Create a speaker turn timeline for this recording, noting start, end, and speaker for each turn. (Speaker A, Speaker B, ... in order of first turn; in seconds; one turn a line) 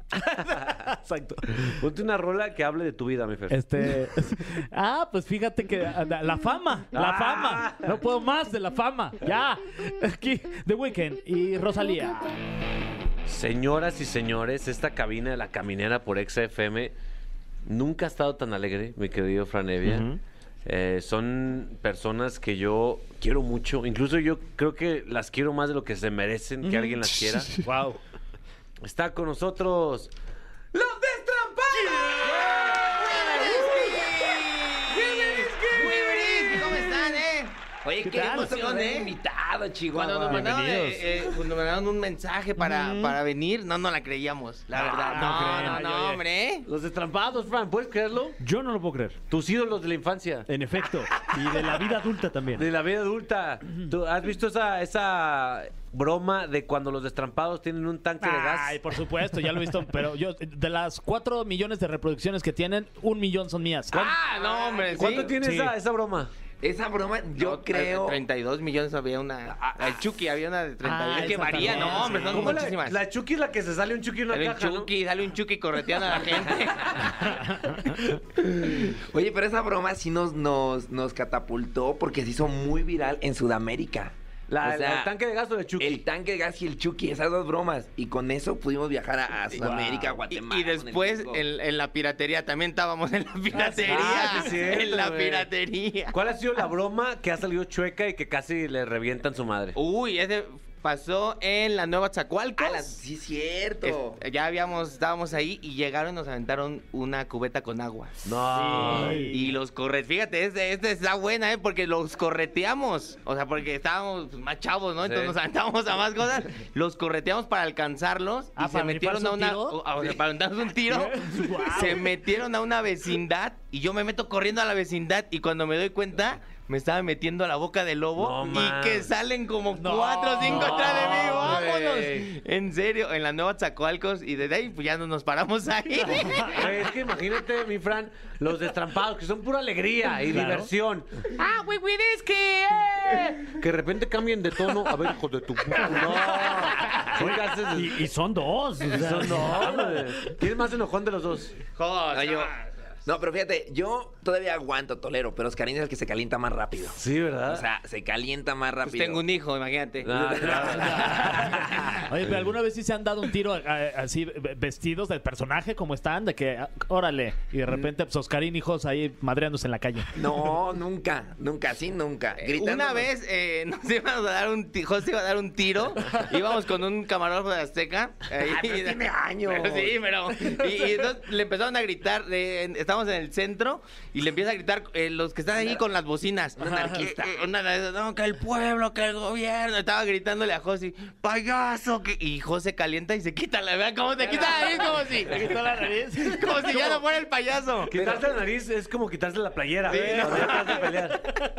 Speaker A: 0.5-0.8
Speaker B: 0.5-1.6
Speaker A: 1.6-3.6
Speaker B: 3.5-12.4
Speaker A: 6.9-7.9
Speaker A: 13.2-16.9
Speaker A: 17.6-20.1
Speaker C: 19.8-20.2
Speaker A: 20.6-27.5
Speaker C: 26.6-27.8
Speaker B: 27.6-28.0
Speaker A: 28.8-30.1
Speaker D: 30.7-36.9
Speaker A: 32.1-32.9
Speaker E: 32.9-37.5
Speaker D: 37.8-40.7
Speaker C: 38.1-38.5
Speaker E: 38.4-39.1
Speaker E: 40.0-46.7
Speaker C: 40.3-41.0
Speaker B: 42.6-43.1
Speaker C: 44.8-45.8
Speaker B: 45.1-46.2
Speaker A: 46.7-48.4
Speaker C: 48.4-49.2
Speaker A: 49.3-50.5
Speaker C: 50.5-52.7
Speaker A: 52.5-58.8
Speaker B: 58.2-64.0
Speaker A: 63.9-64.2
Speaker E: 63.9-65.3
Speaker A: 64.9-66.3
Speaker B: 65.2-65.7
Speaker D: 66.6-68.2
Speaker E: 67.3-73.0
Speaker D: 69.5-70.0
Speaker B: 70.8-72.6
Speaker A: 71.7-74.9
Speaker E: 74.3-77.3
Speaker D: 78.4-85.1
Speaker A: 84.5-86.0
Speaker D: 85.8-91.4
Speaker B: 89.6-90.0
Speaker E: 90.3-96.2
Speaker A: 93.9-95.5
Speaker A: 96.1-99.8
Speaker E: 99.8-103.0
Speaker D: 102.6-104.2
Speaker E: 103.8-108.3
Speaker A: 108.2-109.3
Speaker B: 108.5-109.3
Speaker C: 108.8-109.3
Speaker E: 109.3-136.7
Speaker A: 115.0-115.3
Speaker B: 118.6-119.8
Speaker B: 120.9-122.0
Speaker C: 121.3-121.8
Speaker A: 128.2-129.1
Speaker B: 129.8-131.6
Speaker A: 130.4-132.3
Speaker A: 136.4-148.1
Speaker C: 140.3-140.7
Speaker C: 147.2-150.1
Speaker A: 148.9-151.6
Speaker E: 151.8-152.6
Speaker D: 152.1-152.5
Speaker D: 153.1-159.2
Speaker A: 156.9-157.6
Speaker E: 158.9-160.9
Speaker D: 160.0-161.8
Speaker A: 160.0-162.1
Speaker B: 162.0-170.1
Speaker D: 170.2-173.1
Speaker E: 172.4-195.5
Speaker D: 178.4-180.0
Speaker D: 185.5-185.8
Speaker D: 186.6-187.5
Speaker B: 186.6-187.0
Speaker B: 195.1-197.0
Speaker E: 196.2-198.2
Speaker A: 197.9-201.2
Speaker D: 198.0-198.2
Speaker E: 199.9-200.9